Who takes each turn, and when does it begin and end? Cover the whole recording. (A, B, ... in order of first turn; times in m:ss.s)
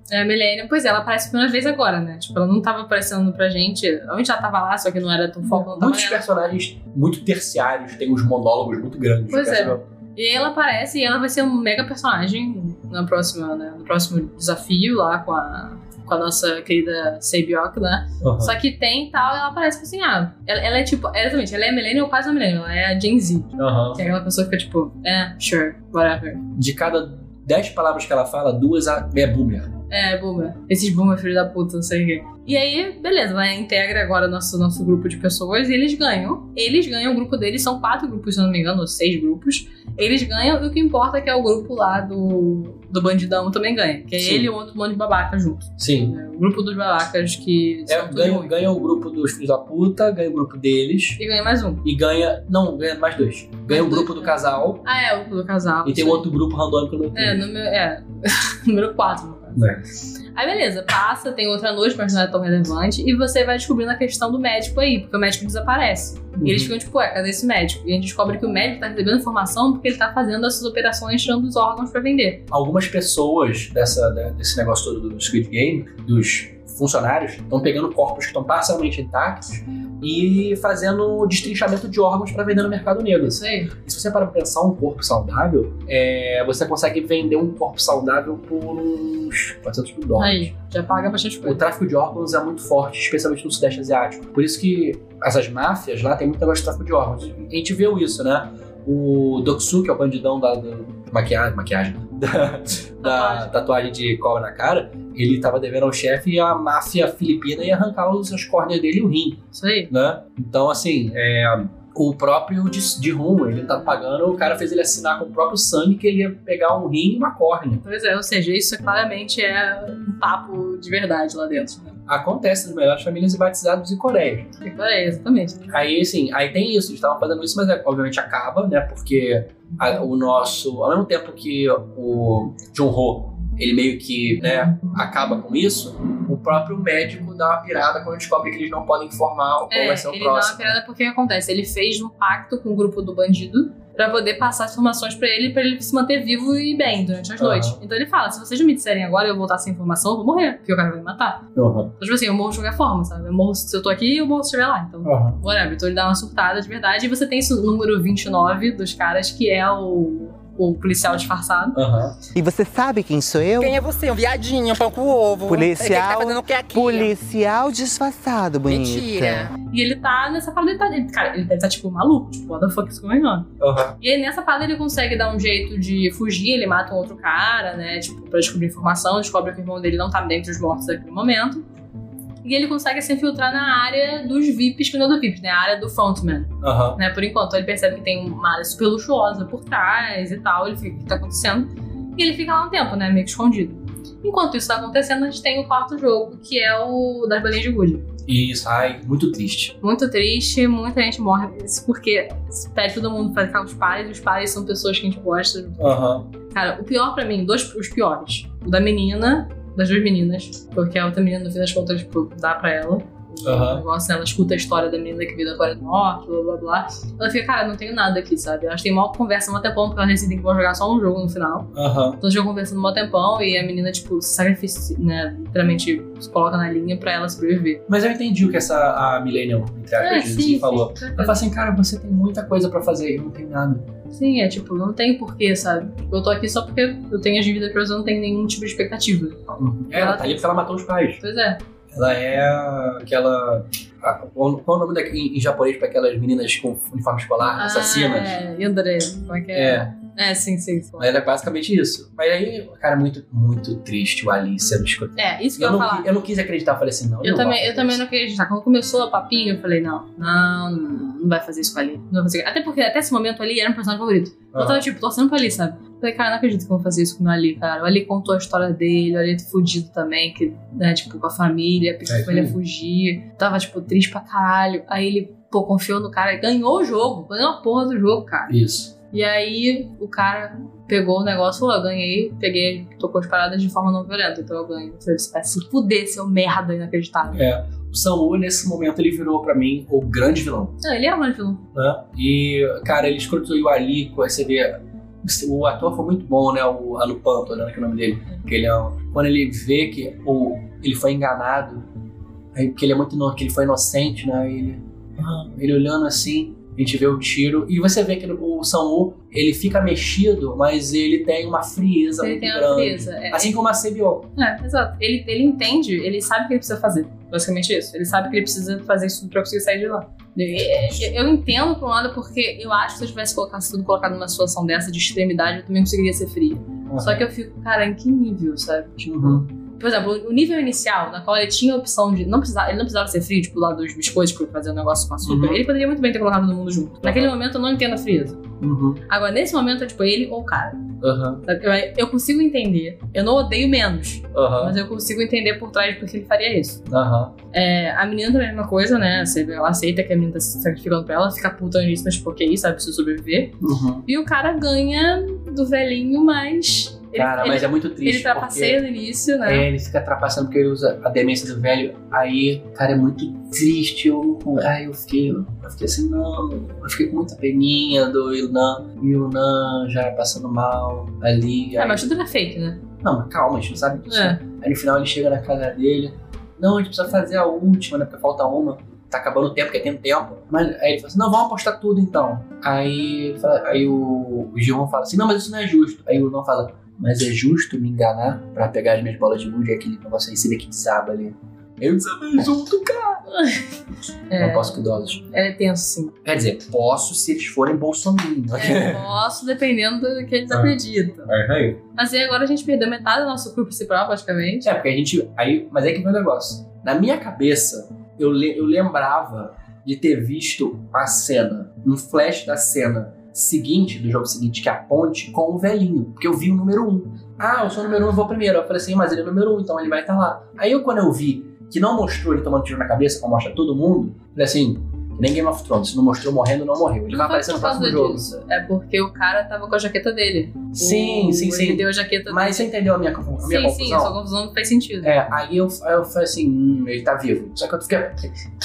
0:00.1-0:06.2 A
0:05.4-0:09.8 B
0:09.3-0:26.4 A
0:18.2-0:18.5 B
0:23.6-0:24.0 B
0:26.5-0:29.7 B
0:29.9-0:48.5 A
0:44.2-0:44.5 B
0:45.8-0:46.2 B
0:47.9-0:51.2 B
0:51.2-0:51.8 A
0:51.8-0:54.8 B
0:53.7-0:56.2 A
0:55.8-0:57.4 B
0:57.1-0:59.7 A
0:59.5-0:59.9 B
1:00.3-1:12.4 A
1:06.4-1:06.7 B
1:12.5-1:30.5 B
1:23.2-1:23.7 A
1:30.2-1:31.6 A
1:31.4-1:57.8 B
1:43.0-1:43.6 A
1:49.5-1:49.9 A
1:57.8-2:02.0 A
2:02.1-2:04.5 B
2:04.6-2:05.6 A
2:05.7-2:20.8 B
2:19.7-2:31.5 A
2:27.4-2:27.8 B
2:31.5-2:31.9 B
2:32.0-2:41.8 A
2:35.0-2:35.4 B
2:41.7-2:42.2 B
2:42.3-2:43.8 C
2:43.6-2:47.1 D
2:45.5-2:49.5 C
2:48.6-2:49.5 D
2:49.6-3:01.6 A
2:53.6-2:54.0 B
3:02.4-3:18.1 A
3:06.6-3:07.0 B
3:18.2-3:19.7 B
3:19.8-3:25.9 A
3:25.8-3:26.3 B
3:26.5-3:47.8 A
3:33.4-3:33.8 B
3:41.7-3:42.2 B
3:47.9-3:53.9 B
3:50.0-3:51.4 A
3:54.1-3:59.4 A
3:59.5-4:01.2 B
3:59.9-4:00.5 A
4:01.2-4:01.6 A
4:01.9-4:08.4 B
4:07.6-4:11.1 A
4:09.5-4:09.9 B
4:11.0-4:18.0 B
4:15.2-4:16.1 A
4:17.2-4:38.5 A
4:24.5-4:24.9 B
4:32.1-4:32.6 B
4:38.5-4:38.9 B
4:39.1-4:47.4 A
4:47.3-4:50.7 B
4:50.8-4:51.6 A
4:51.7-5:01.8 B
5:02.5-5:14.3 B
5:12.2-5:13.5 A
5:14.4-5:38.4 A
5:20.5-5:21.1 B
5:26.9-5:27.2 B
5:29.0-5:29.5 B
5:35.2-5:35.6 B
5:37.0-5:37.3 B
5:38.6-5:39.0 B
5:39.1-5:40.8 A
5:41.0-5:41.4 B
5:41.4-5:46.8 A
5:44.3-5:44.8 B
5:46.9-5:47.3 B
5:47.5-5:59.7 A
5:53.6-5:54.0 B
5:57.1-5:58.8 B
5:59.4-6:12.1 B
6:11.8-6:12.8 A
6:13.0-6:33.2 B
6:14.1-6:14.4 A
6:33.3-6:33.7 A
6:34.3-6:36.1 A
6:34.4-6:35.2 B
6:36.2-6:39.1 B
6:38.5-6:41.3 A
6:40.5-6:40.7 B
6:41.2-6:41.8 B
6:41.9-6:44.7 A
6:44.6-7:08.3 B
7:07.1-7:12.7 A
7:10.7-7:14.2 B
7:13.4-7:15.2 A
7:15.0-7:18.4 B